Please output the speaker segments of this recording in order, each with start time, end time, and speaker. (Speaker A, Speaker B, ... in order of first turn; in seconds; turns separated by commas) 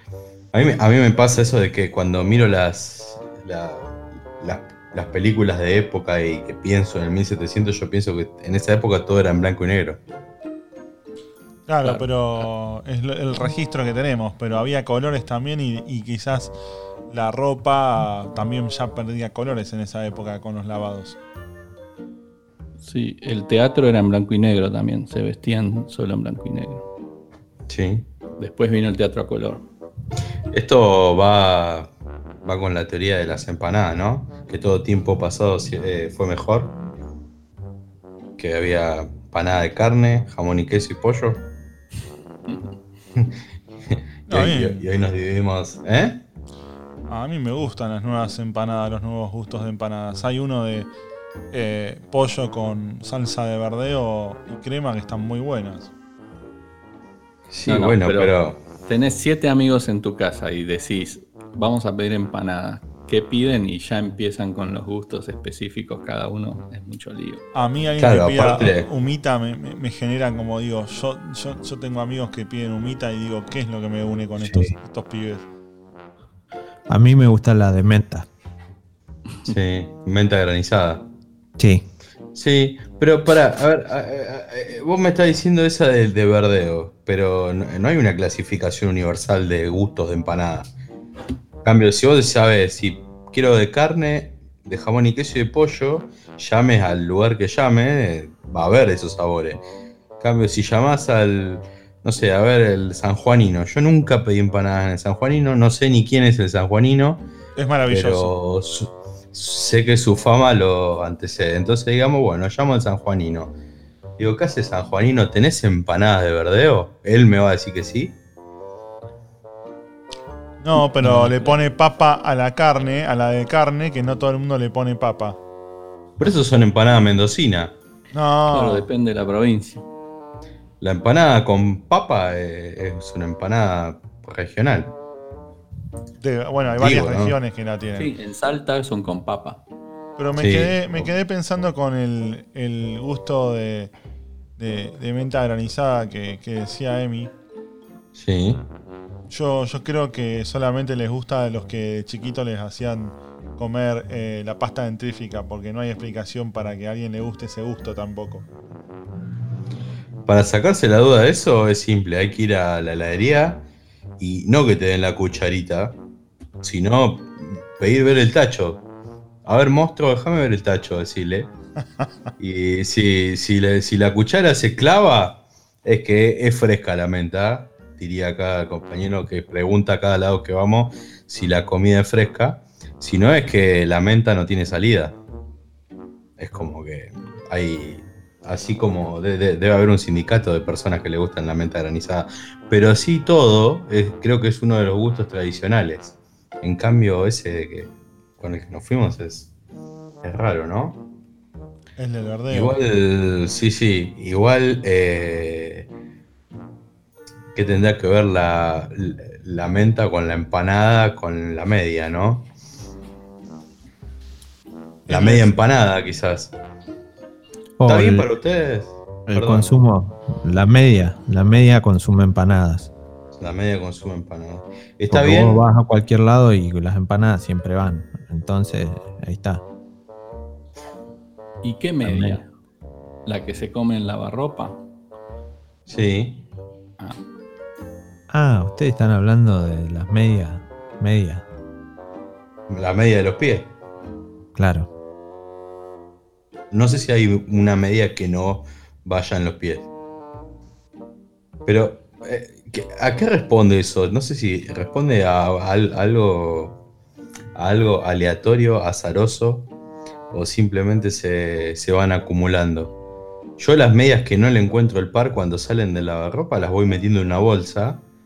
Speaker A: 0.5-10.0, Speaker B: 11.7-16.5, Speaker C: 11.8-12.4, Speaker B: 17.1-21.2, Speaker C: 22.8-26.8, Speaker A: 27.7-28.1, Speaker C: 28.4-29.6, Speaker A: 30.5-31.9, Speaker A: 32.4-36.7, Speaker A: 38.4-41.4, Speaker A: 44.2-46.2, Speaker B: 44.3-44.9, Speaker B: 47.1-50.9, Speaker B: 51.5-55.9, Speaker A: 57.5-58.6, Speaker C: 57.7-58.3, Speaker C: 58.9-67.4, Speaker B: 67.5-75.4, Speaker A: 68.0-68.8, Speaker D: 74.4-74.7, Speaker D: 76.9-78.3, Speaker A: 79.4-81.0, Speaker D: 81.6-81.8, Speaker A: 82.3-90.7, Speaker A: 91.6-99.6, Speaker A: 100.2-107.2, Speaker B: 107.5-108.3, Speaker A: 107.9-113.5, Speaker A: 114.2-118.1, Speaker B: 120.6-125.4, Speaker C: 121.0-121.6, Speaker A: 126.2-127.7, Speaker B: 128.1-128.9, Speaker C: 128.5-129.8, Speaker A: 130.8-134.9, Speaker B: 136.2-138.1, Speaker A: 136.7-137.3, Speaker C: 137.9-139.6, Speaker B: 140.2-143.9, Speaker A: 140.3-141.1, Speaker B: 144.6-147.3, Speaker A: 148.1-148.7, Speaker B: 149.3-158.4, Speaker A: 160.2-163.6, Speaker A: 164.2-166.0, Speaker A: 166.6-168.8, Speaker A: 169.4-171.5, Speaker A: 172.4-185.2, Speaker A: 186.4-199.5, Speaker A: 200.2-201.0, Speaker B: 202.0-202.8, Speaker A: 202.5-205.9, Speaker A: 207.5-212.5, Speaker B: 215.1-215.5, Speaker A: 215.1-216.5, Speaker D: 217.8-218.3, Speaker A: 217.8-219.8, Speaker D: 219.3-222.9, Speaker A: 223.4-225.6, Speaker D: 225.1-229.6, Speaker C: 231.6-232.5, Speaker D: 232.0-232.4, Speaker C: 233.2-234.8, Speaker A: 235.9-236.4, Speaker D: 238.3-241.4, Speaker A: 242.7-243.7, Speaker D: 244.6-244.9, Speaker A: 246.7-249.9, Speaker A: 251.7-256.8, Speaker A: 257.5-259.7, Speaker A: 260.3-262.9, Speaker A: 263.6-268.0